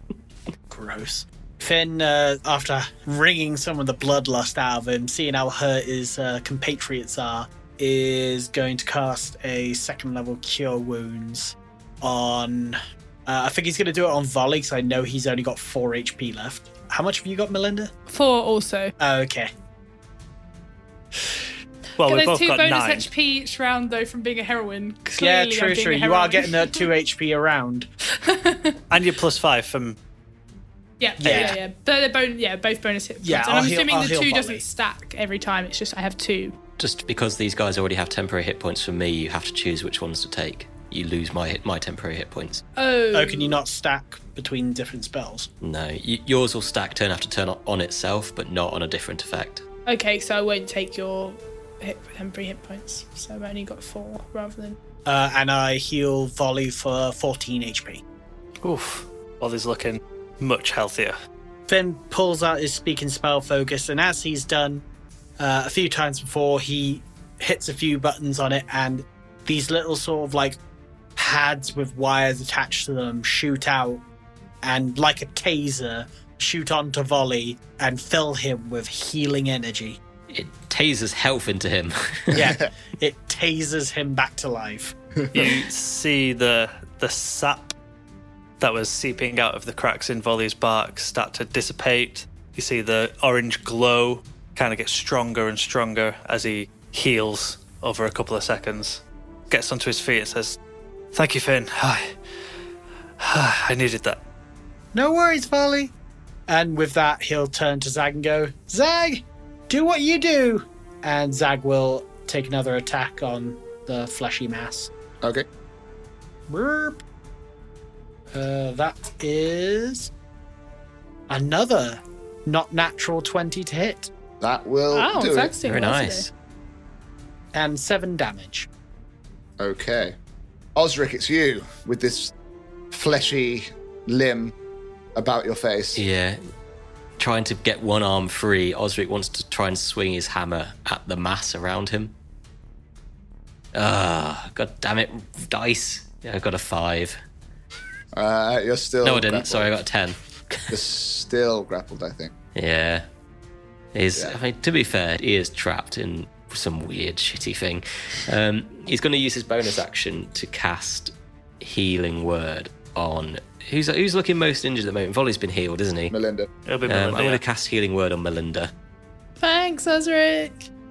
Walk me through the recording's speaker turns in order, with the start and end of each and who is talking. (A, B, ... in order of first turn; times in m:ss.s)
0:00.7-0:17.9 A
0:18.1-0:18.9 B
0:19.0-0:19.5 A
0:22.0-0:23.1 C
0:22.0-0:26.9 B
0:25.2-0:27.9 A
0:28.2-0:28.8 B
0:28.9-0:30.0 C
0:31.0-0:36.6 B
0:31.2-0:31.6 C
0:31.2-0:31.6 A
0:33.2-0:34.6 A
0:36.8-0:42.6 D
0:42.8-0:43.6 B
0:43.1-0:45.5 A
0:45.6-0:49.6 D
0:49.9-0:54.8 B
0:55.1-0:58.0 A
0:58.6-1:01.2 C
1:01.7-1:04.8 A
1:05.4-1:10.6 A
1:11.2-1:14.0 A
1:14.6-1:20.0 A
1:20.3-1:22.5 D
1:22.3-1:25.0 A
1:25.3-1:25.6 E
1:25.3-1:27.7 C
1:28.6-1:40.6 C
1:41.1-1:42.1 C
1:43.2-1:44.2 C
1:44.9-1:45.9 A
1:46.5-1:54.9 A
1:55.2-1:55.5 E
1:56.5-1:57.0 A
1:58.3-2:00.1 A
2:01.3-2:04.1 A
2:04.4-2:05.5 E
2:04.9-2:06.3 B
2:05.6-2:06.3 D
2:07.5-2:08.7 A
2:09.6-2:10.2 E
2:10.8-2:12.3 E
2:12.9-2:14.6 E
2:15.2-2:16.0 E
2:16.0-2:16.4 D
2:17.2-2:22.1 D
2:23.7-2:27.2 D
2:28.1-2:29.7 E
2:29.0-2:30.7 D
2:30.7-2:32.3 E
2:32.6-2:33.0 D
2:33.9-2:46.1 D
2:46.1-2:46.5 E
2:46.6-2:47.4 C
2:46.9-2:48.7 D
2:49.4-2:50.7 B